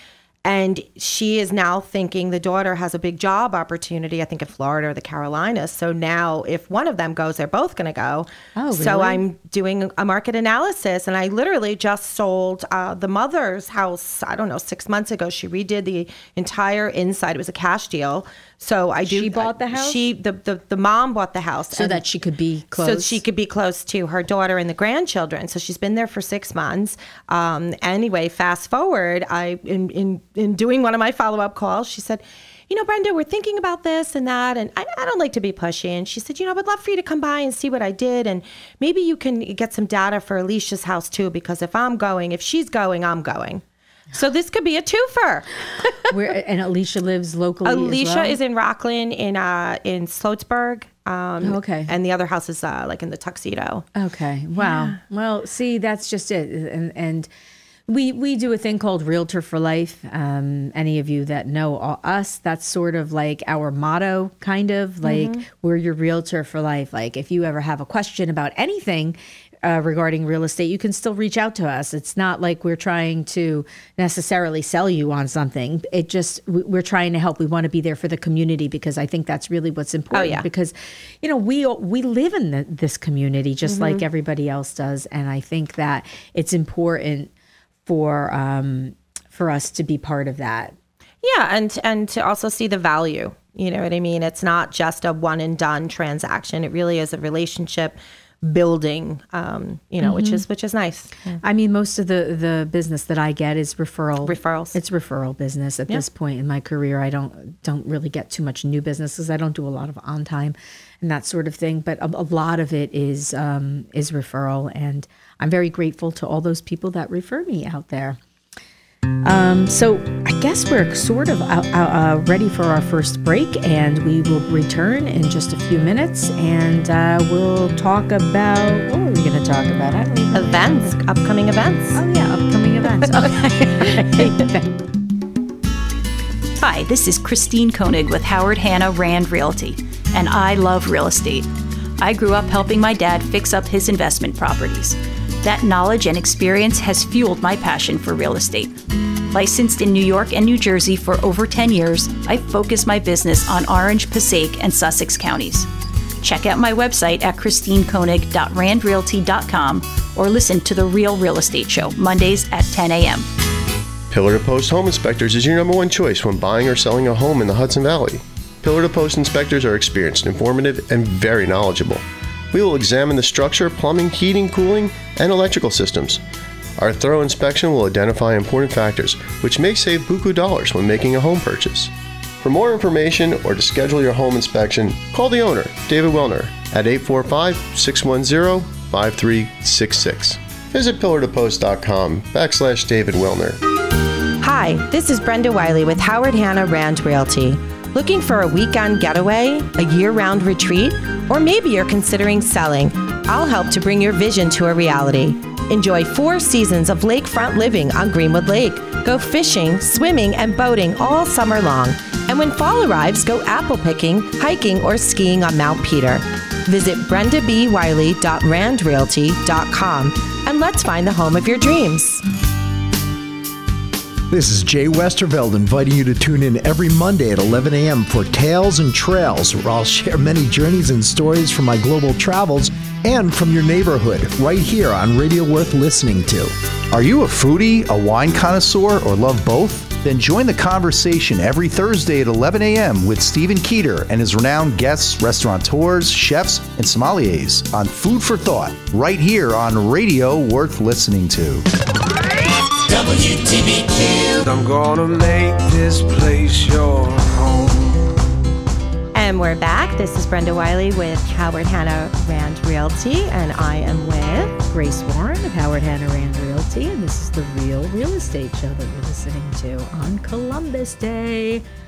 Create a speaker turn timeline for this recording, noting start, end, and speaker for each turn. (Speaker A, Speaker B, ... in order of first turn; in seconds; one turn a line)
Speaker A: 0.4-22.0
Speaker B: 8.6-9.2
Speaker B: 19.0-20.1
Speaker B: 21.7-23.2
Speaker A: 22.8-45.5
Speaker B: 46.1-48.4
Speaker A: 47.6-53.8
Speaker B: 51.4-51.9
Speaker B: 53.9-57.3
Speaker A: 54.6-55.0
Speaker B: 57.9-87.3
Speaker A: 65.0-65.4
Speaker A: 80.1-80.5
Speaker A: 83.6-84.0
Speaker B: 87.9-90.8
Speaker A: 91.2-101.4
Speaker B: 100.0-100.4
Speaker B: 101.4-118.2
Speaker A: 104.2-104.8
Speaker B: 119.2-131.0
Speaker A: 130.3-132.0
Speaker B: 131.9-134.8
Speaker C: 136.6-148.8
Speaker C: 149.3-155.7
Speaker C: 156.2-163.3
Speaker D: 164.1-176.2
Speaker D: 176.8-193.6
Speaker A: 194.4-222.2
Speaker E: 224.3-251.6
Speaker F: 252.9-258.1
Speaker A: 259.1-264.6
Speaker B: 264.6-271.6